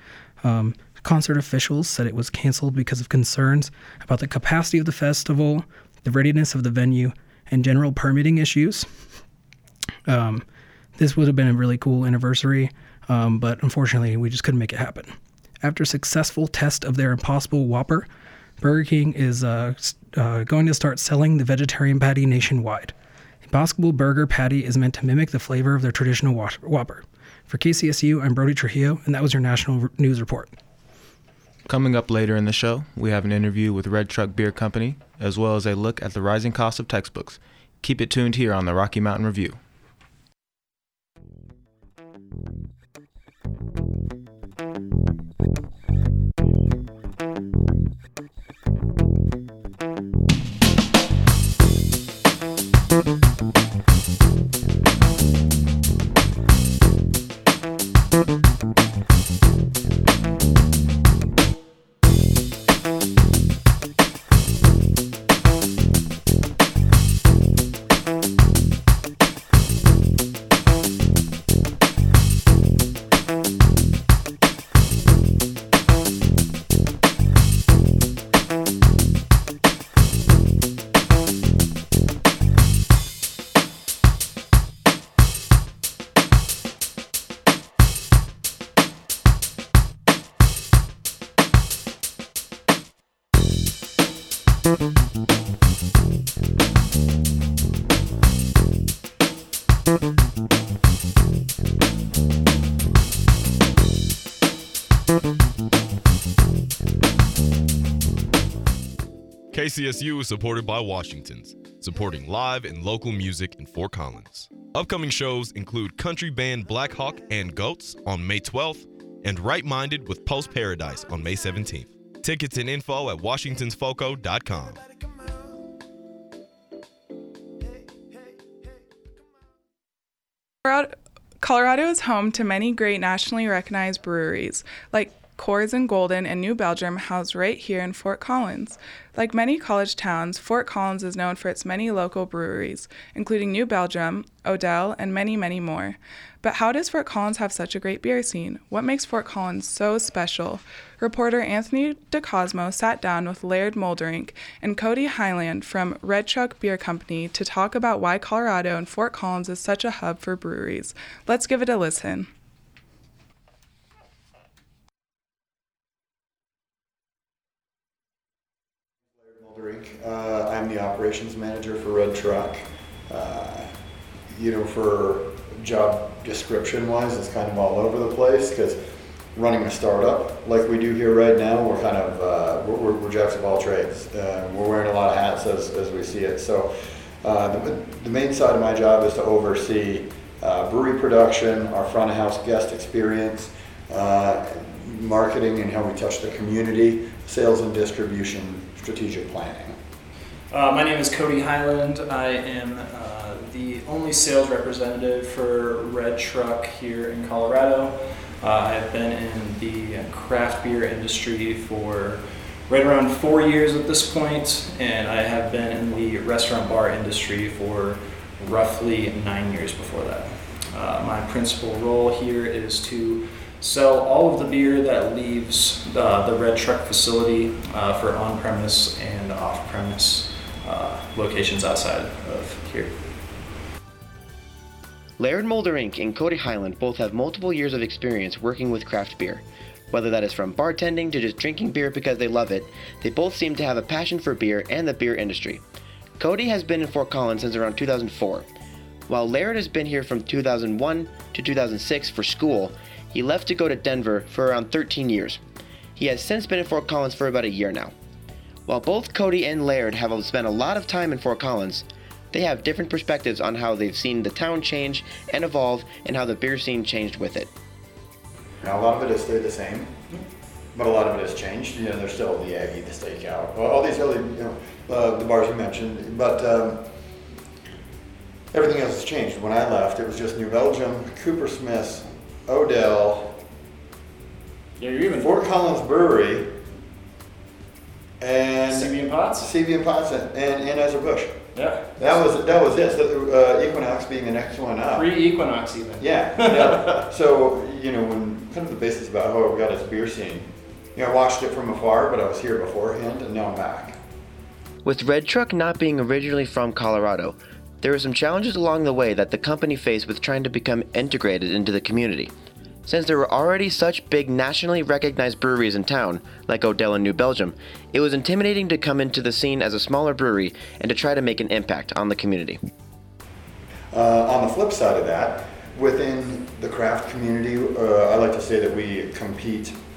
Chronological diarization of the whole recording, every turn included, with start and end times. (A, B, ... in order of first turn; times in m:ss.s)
0:00.4-0:08.9 A
0:10.1-0:10.4 A
0:11.0-0:18.1 A
0:18.6-0:30.5 A
0:31.7-0:39.6 B
1:49.5-2:04.8 C
2:10.6-2:42.3 D
2:49.2-2:53.7 E
2:54.3-2:58.8 E
2:59.3-3:19.8 E
3:20.5-3:52.9 F
3:55.2-4:05.6 G
4:06.2-4:08.4 G
4:09.1-4:15.4 G
4:16.0-4:17.9 G
4:18.7-4:27.5 G
4:28.6-4:30.0 E
4:30.7-4:36.9 E
4:38.5-4:43.4 E
4:44.8-4:45.5 F
4:45.1-4:46.5 E
4:48.2-4:51.4 E
4:48.7-4:49.5 F
4:51.5-4:52.2 F
4:52.0-4:55.1 E
4:54.9-4:57.0 F
4:56.0-5:04.0 E
5:04.8-5:12.3 G
5:12.8-5:22.6 G
5:23.9-5:29.8 E